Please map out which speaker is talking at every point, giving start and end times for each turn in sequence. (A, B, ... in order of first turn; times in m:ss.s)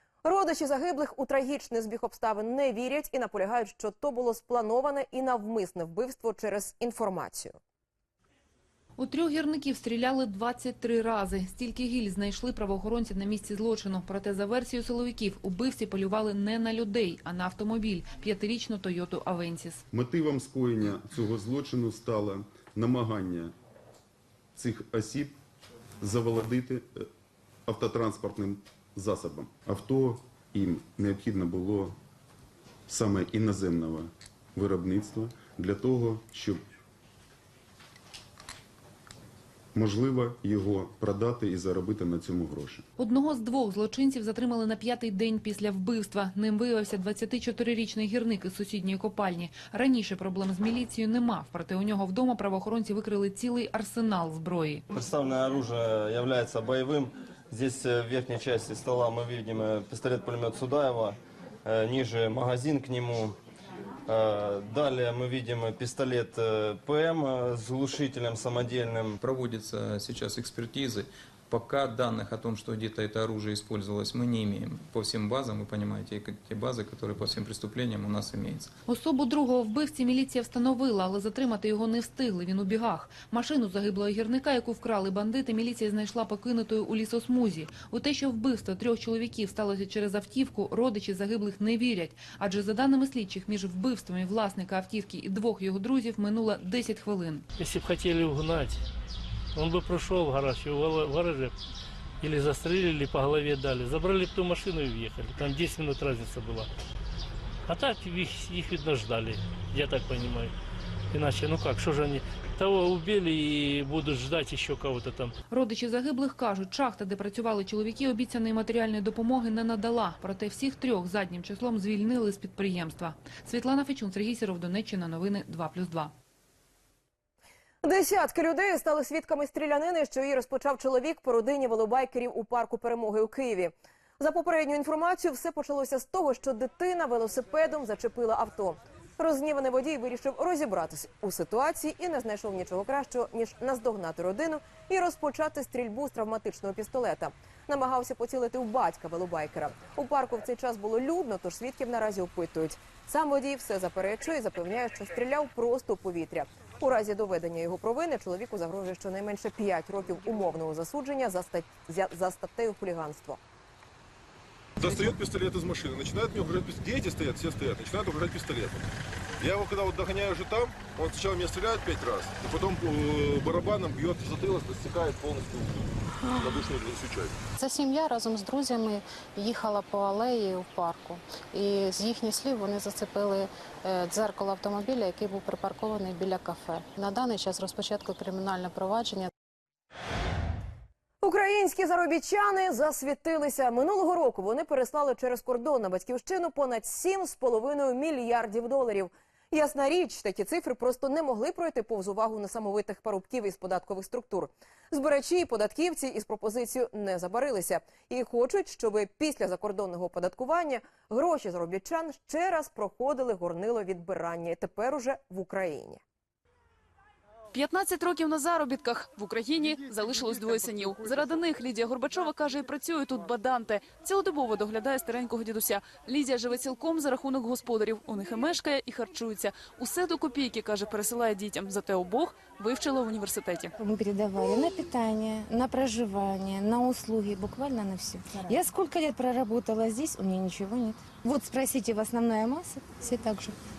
0:00.2-0:07.6 A
0:09.0-0:19.8 B
0:19.9-0:23.5 C
0:24.6-0:25.4 C
0:26.0-0:27.1 C
0:27.7-0:32.0 C
0:32.9-0:36.6 C
0:39.7-0:42.8 C
0:43.0-0:54.8 B
0:54.9-1:03.4 D
1:04.1-1:09.2 D
1:09.2-1:18.7 E
1:18.9-1:37.5 B
1:37.6-1:38.8 F
1:39.5-1:41.5 F
1:42.2-1:46.7 F
1:47.7-1:50.5 F
1:51.1-1:55.4 F
1:55.5-2:06.1 B
2:07.8-2:43.4 A
2:44.8-2:48.8 G
2:49.4-2:57.4 G
2:57.6-3:09.3 H
3:11.2-3:36.0 A
3:37.5-3:53.7 I
3:53.8-4:03.5 J